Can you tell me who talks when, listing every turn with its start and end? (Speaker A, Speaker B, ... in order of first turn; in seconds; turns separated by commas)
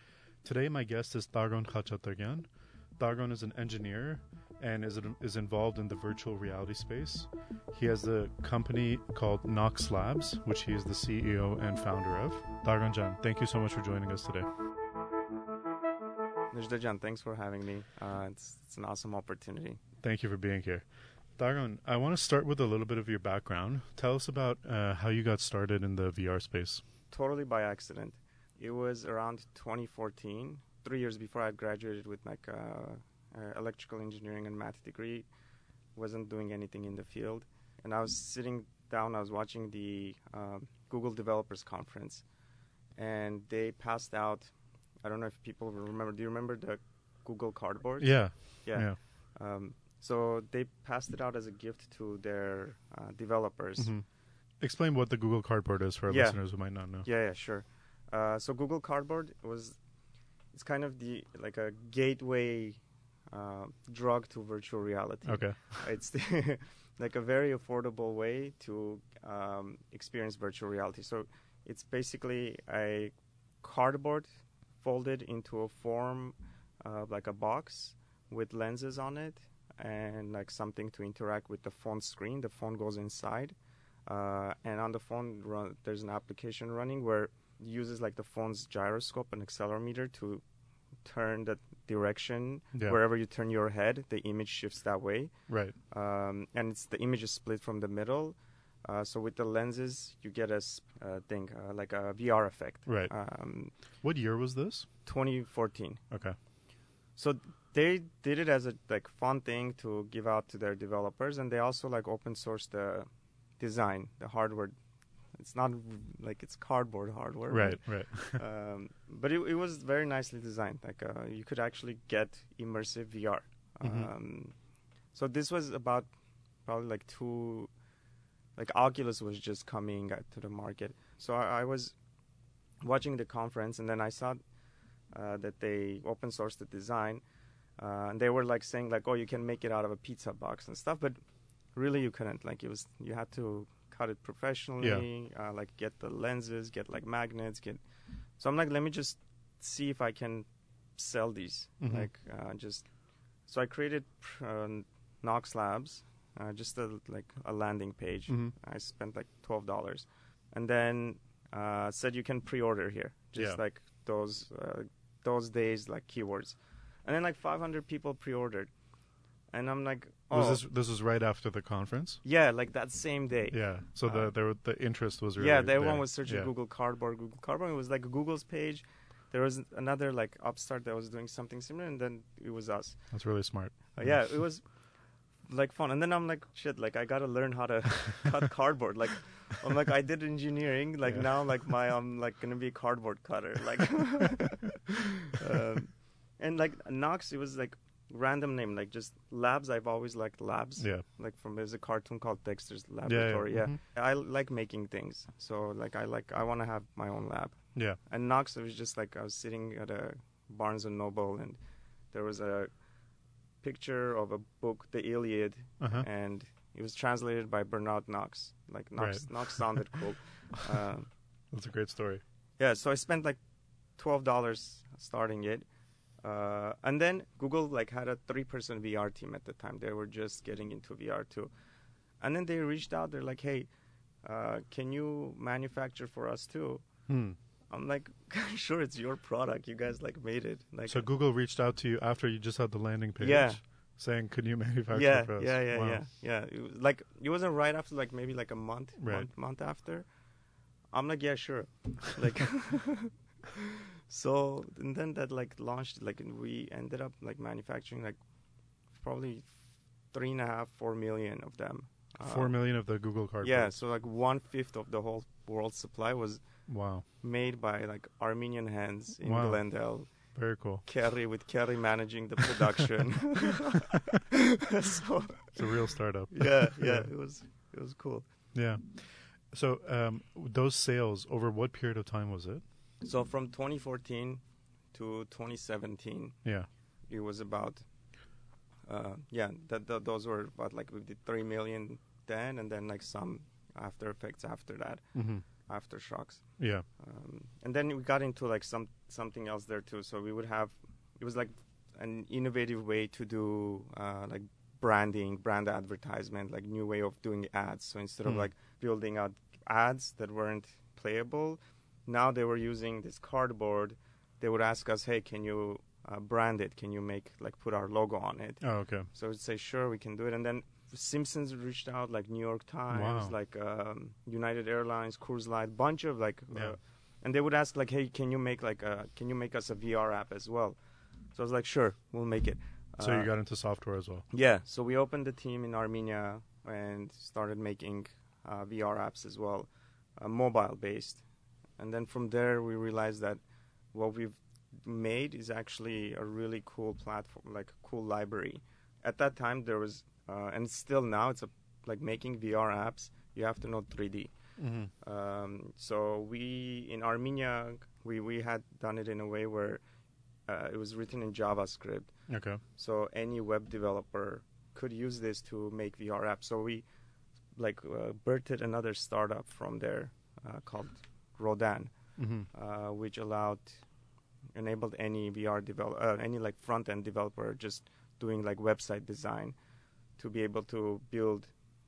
Speaker A: 0.4-14.5, Speaker B: 16.5-19.8, Speaker A: 20.0-26.8, Speaker B: 27.1-35.3, Speaker B: 35.9-42.2, Speaker B: 43.0-53.9, Speaker A: 48.0-49.0, Speaker A: 53.8-54.0, Speaker A: 54.6-57.1, Speaker B: 56.1-59.8, Speaker B: 60.5-74.3, Speaker A: 65.2-65.8, Speaker B: 74.8-83.5, Speaker B: 84.1-90.4, Speaker B: 91.0-95.3, Speaker A: 92.7-93.0, Speaker A: 95.5-95.7, Speaker B: 95.9-103.7, Speaker A: 102.8-103.1, Speaker A: 103.9-104.9, Speaker B: 105.0-106.0, Speaker A: 106.1-106.4, Speaker B: 107.2-113.1, Speaker B: 113.6-114.8, Speaker B: 115.3-124.5, Speaker A: 117.5-118.4, Speaker A: 123.8-124.1, Speaker B: 125.1-126.1, Speaker B: 126.7-127.7, Speaker B: 128.6-131.9, Speaker B: 132.8-134.4, Speaker B: 135.1-137.2, Speaker B: 137.8-141.2, Speaker B: 141.7-147.8, Speaker A: 144.8-145.0, Speaker B: 148.4-152.9, Speaker A: 151.8-152.1, Speaker B: 153.4-168.7, Speaker A: 158.3-158.5, Speaker B: 169.5-170.6, Speaker A: 170.3-172.2, Speaker B: 172.2-174.4, Speaker A: 173.5-176.5, Speaker B: 175.4-183.3, Speaker A: 183.1-184.4, Speaker B: 183.9-184.8, Speaker B: 185.4-211.6, Speaker A: 200.8-201.0, Speaker A: 203.0-203.8, Speaker B: 212.1-212.7, Speaker B: 213.6-221.1, Speaker A: 215.8-216.1, Speaker A: 219.0-220.0, Speaker A: 221.5-222.2, Speaker B: 222.6-223.4, Speaker B: 224.0-225.7, Speaker B: 226.2-231.5, Speaker B: 232.2-233.7, Speaker B: 234.2-236.9, Speaker A: 237.1-237.4, Speaker B: 237.7-241.0, Speaker A: 240.9-246.0, Speaker B: 243.2-243.6, Speaker B: 244.9-250.1, Speaker A: 249.0-249.3, Speaker B: 250.9-258.2, Speaker B: 258.9-259.5, Speaker B: 260.1-262.6, Speaker A: 262.2-263.8, Speaker B: 263.4-266.4, Speaker A: 266.7-267.1, Speaker B: 267.0-278.2, Speaker A: 269.2-270.9, Speaker A: 275.5-277.1, Speaker A: 278.5-282.6, Speaker B: 283.0-286.4, Speaker A: 286.4-286.7, Speaker B: 287.0-287.9, Speaker B: 288.9-330.8, Speaker A: 295.1-295.4, Speaker A: 296.6-296.8, Speaker A: 318.6-319.1, Speaker A: 322.9-323.3, Speaker B: 331.3-333.3, Speaker A: 333.0-334.2, Speaker B: 334.3-341.2, Speaker B: 341.8-343.4, Speaker B: 343.9-354.4, Speaker A: 354.6-354.9, Speaker B: 354.9-359.8, Speaker B: 360.5-366.8, Speaker A: 362.3-362.6, Speaker B: 367.5-373.8, Speaker A: 372.2-372.5, Speaker B: 374.5-379.6, Speaker B: 380.2-381.5